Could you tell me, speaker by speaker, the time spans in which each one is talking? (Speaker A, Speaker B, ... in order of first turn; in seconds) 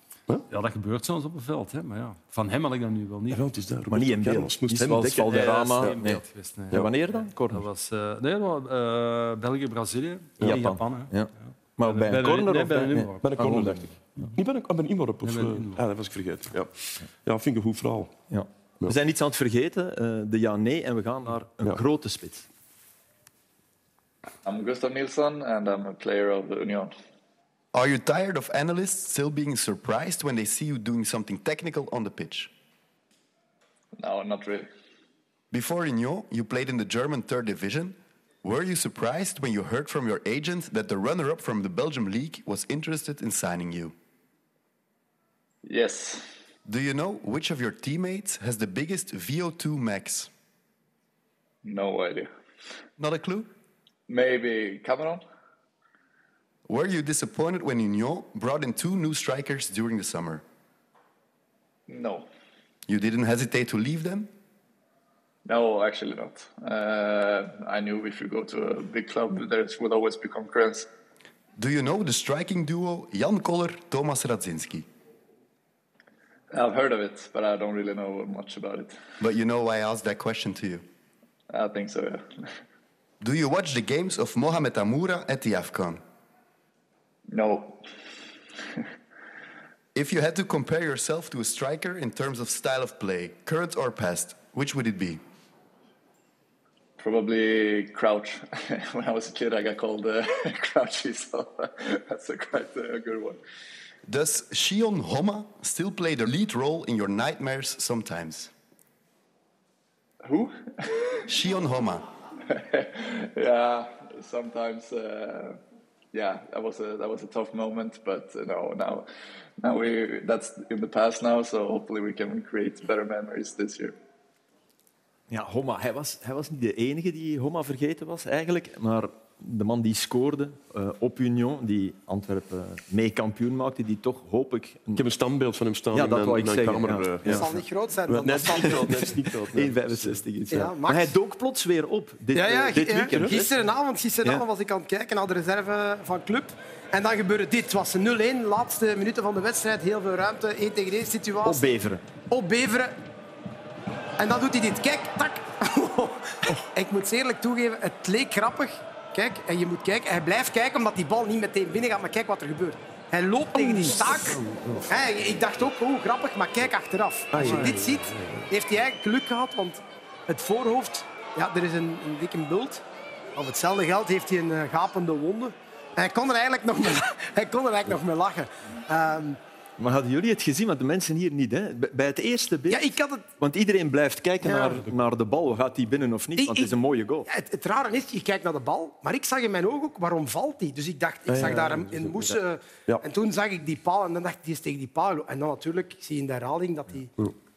Speaker A: 0.5-3.4, 5.3-6.8, 7.5-11.1, 11.8-13.2, 15.2-15.8, 167.4-167.8
Speaker B: 3.3-6.1, 6.7-7.0, 10.4-10.7, 13.2-18.1, 134.9-137.6, 138.1-140.7, 142.8-143.5, 163.6-164.9, 167.3-168.5, 191.3-192.3
Speaker C: 3.9-7.6, 10.4-13.9, 18.3-22.5, 125.3-135.0, 135.9-137.4, 138.5-143.4, 151.4-152.0, 179.8-187.3
Speaker D: 24.4-26.9, 34.0-34.7, 45.6-46.2, 51.6-52.3, 54.1-55.2, 61.9-62.2, 65.5-70.9, 76.5-79.0, 81.5-82.5, 87.3-87.8, 88.6-88.9, 97.0-103.4, 110.2-111.0, 112.4-115.6, 116.1-119.0, 119.6-123.9
Speaker E: 27.7-32.5, 35.5-43.9, 46.6-50.3, 53.0-53.5, 56.7-60.4, 62.9-64.3, 71.6-74.8, 79.2-80.8, 83.2-86.0, 89.9-95.2, 104.0-108.5, 111.3-112.0
Speaker F: 137.3-139.1, 140.5-141.1, 142.3-151.7, 152.3-152.9, 154.2-172.8, 173.3-179.4, 182.7-183.2, 184.4-184.8, 186.4-186.7, 187.3-197.1